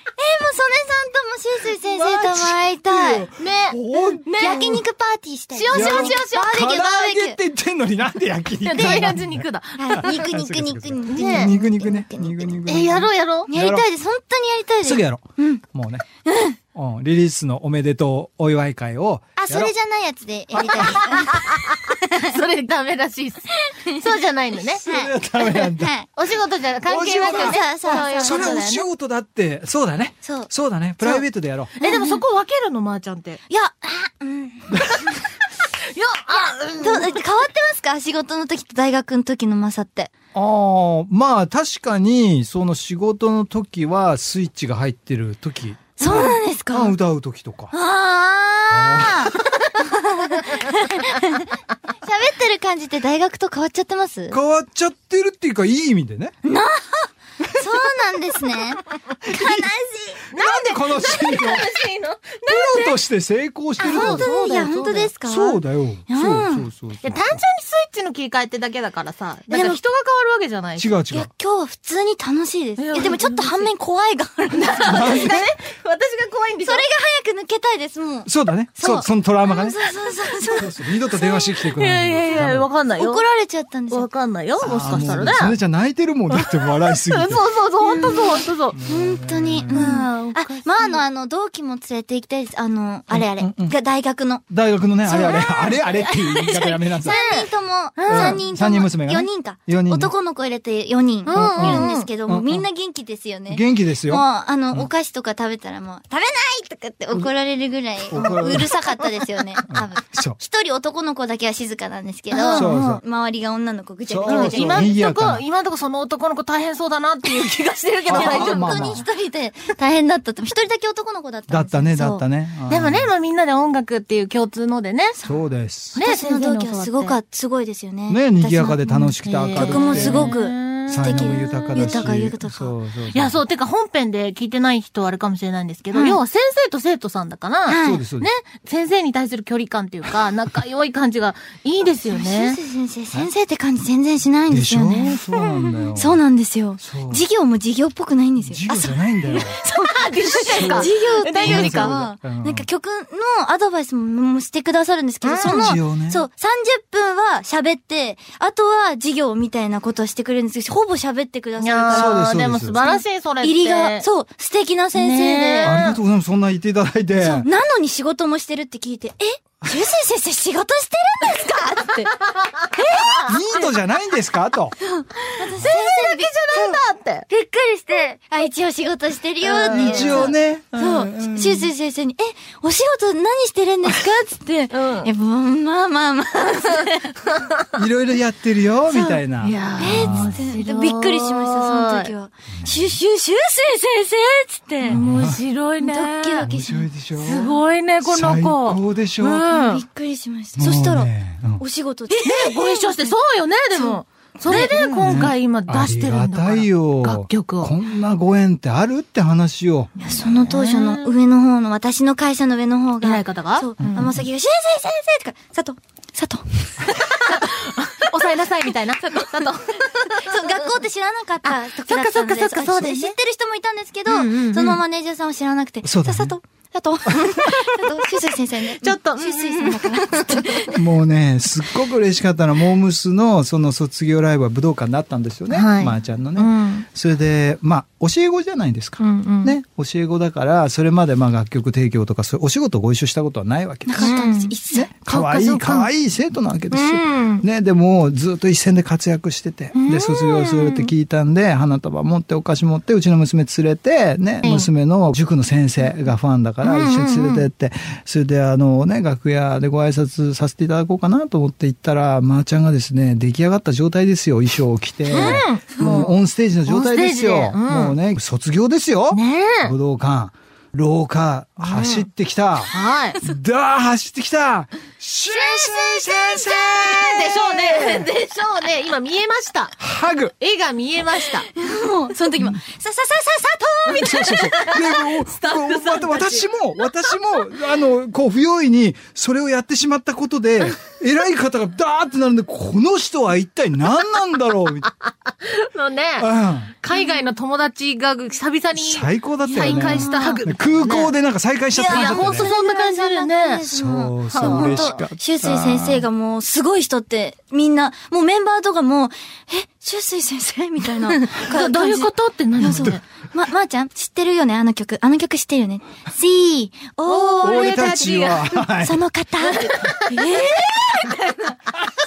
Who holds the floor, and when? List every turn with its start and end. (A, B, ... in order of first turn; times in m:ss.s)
0:00.2-0:03.3 A
0:01.8-0:04.8 B
0:03.4-0:04.6 C
0:04.4-0:07.4 A
0:05.5-0:06.7 C
0:05.7-0:13.8 B
0:08.6-0:10.3 C
0:08.8-0:09.2 A
0:09.8-0:12.6 A
0:11.1-0:11.5 C
0:12.6-0:13.5 C
0:13.5-0:15.6 A
0:14.8-0:16.0 B
0:16.2-0:16.6 A
0:16.7-0:19.7 B
0:19.4-0:22.0 A
0:20.6-0:24.8 C
0:24.8-0:26.1 A
0:24.8-0:25.9 B
0:26.1-0:28.9 C
0:26.8-0:31.7 B
0:27.2-0:28.6 A
0:30.2-0:30.5 A
0:31.0-0:31.2 C
0:31.8-0:33.4 C
0:31.8-0:32.2 A
0:33.5-0:35.1 A
0:35.6-0:37.2 C
0:36.8-0:40.1 A
0:40.3-0:47.7 B
0:46.0-0:47.0 A
0:47.7-0:54.4 A
0:48.7-0:49.3 B
0:54.3-0:56.4 B
0:56.4-1:00.2 A
0:59.2-0:59.7 B
1:00.3-1:01.7 B
1:00.3-1:03.0 C
1:02.5-1:04.3 B
1:03.8-1:05.1 C
1:03.8-1:06.7 A
1:05.2-1:07.4 B
1:07.0-1:11.0 C
1:09.5-1:09.8 A
1:10.8-1:11.3 B
1:11.1-1:15.4 A
1:12.8-1:13.7 C
1:14.6-1:16.8 C
1:14.7-1:15.4 B
1:16.6-1:21.5 A
1:18.2-1:22.7 B
1:21.6-1:23.2 C
1:22.9-1:24.1 A
1:23.9-1:25.6 C
1:24.6-1:27.4 B
1:24.8-1:25.4 A
1:26.3-1:28.8 C
1:27.8-1:34.5 A
1:28.7-1:30.0 B
1:29.7-1:31.0 C
1:33.1-1:33.7 B
1:34.5-1:37.2 B
1:35.0-1:54.9 A
1:35.3-1:35.7 C
1:37.0-1:38.4 C
1:38.1-1:40.1 B
1:41.2-1:42.1 C
1:41.3-1:42.6 B
1:43.5-1:44.9 B
1:48.1-1:48.7 B
1:48.3-1:48.6 C
1:49.7-1:50.4 B
1:52.3-1:52.8 C
1:52.5-1:53.0 B
1:54.1-1:55.4 B
1:54.2-1:59.0 C
1:58.1-1:59.0 B
1:58.1-2:02.2 A
2:01.5-2:03.1 B
2:02.7-2:05.2 C
2:05.2-2:06.0 B
2:05.9-2:07.2 C
2:05.9-2:08.9 A
2:08.1-2:10.4 B
2:08.9-2:12.1 C
2:09.5-2:12.7 A
2:10.9-2:13.4 B
2:13.1-2:22.6 C
2:15.9-2:16.2 A
2:17.6-2:18.0 A
2:17.8-2:18.3 B
2:22.1-2:25.3 A
2:24.5-2:26.2 B
2:25.5-2:25.9 C
2:25.9-2:45.8 A
2:26.8-2:27.2 B
2:28.4-2:29.6 B
2:29.3-2:31.9 C
2:30.3-2:32.7 B
2:35.2-2:35.8 C
2:35.4-2:36.2 B
2:41.6-2:44.1 C
2:41.9-2:42.8 B
2:44.9-2:46.0 C
2:45.6-2:47.5 B
2:47.2-2:52.1 A
2:52.7-2:53.3 A
2:53.0-2:53.3 C
2:53.2-2:54.8 B
2:54.8-3:07.2 A
2:55.5-2:57.3 C
2:59.4-3:00.3 C
2:59.6-3:01.7 B
3:04.7-3:05.1 C
3:07.7-3:10.4 B
3:08.9-3:09.2 A
3:09.4-3:12.1 C
3:09.8-3:15.0 A
3:12.6-3:12.9 B
3:14.8-3:16.5 C
3:14.8-3:15.4 B
3:15.8-3:16.9 A
3:16.4-3:19.5 B
3:17.2-3:19.8 C
3:19.5-3:23.1 A
3:20.5-3:21.6 B
3:22.2-3:27.7 C
3:23.7-3:25.3 A
3:24.4-3:29.9 B
3:30.0-3:36.8 A
3:30.2-3:31.1 C
3:33.0-3:34.1 C
3:33.8-3:34.2 B
3:36.8-3:40.7 C
3:40.2-3:50.8 A
3:41.4-3:43.2 C
3:44.1-3:44.8 C
3:45.8-3:46.4 B
3:48.7-3:50.7 C
3:50.7-4:38.1 B
3:55.5-3:56.8 C
3:59.0-3:59.5 C
4:03.8-4:05.4 A
4:04.0-4:05.9 C
4:06.7-4:07.4 C
4:09.7-4:10.9 C
4:14.4-4:14.7 C
4:16.6-4:17.5 C
4:25.1-4:26.0 A
4:25.1-4:28.0 C
4:29.1-4:29.7 C
4:31.6-4:32.1 C
4:32.7-4:33.2 C
4:35.3-4:39.8 C
4:35.9-4:36.2 A
4:39.8-4:40.3 B
4:40.4-4:41.5 C
4:41.5-4:46.4 A
4:43.8-4:54.9 B
4:55.0-4:56.3 C
4:56.2-4:56.7 B
4:56.8-5:01.2 C
4:56.9-4:57.2 A
4:58.8-5:02.5 B
4:59.5-5:00.4 A
5:01.7-5:18.2 A
5:01.8-5:03.6 C
5:03.7-5:06.0 B
5:04.3-5:05.0 C
5:11.1-5:13.0 C
5:12.6-5:13.0 B
5:17.0-5:18.6 C
5:17.4-5:19.0 B
5:18.8-5:21.6 A
5:19.5-5:20.3 C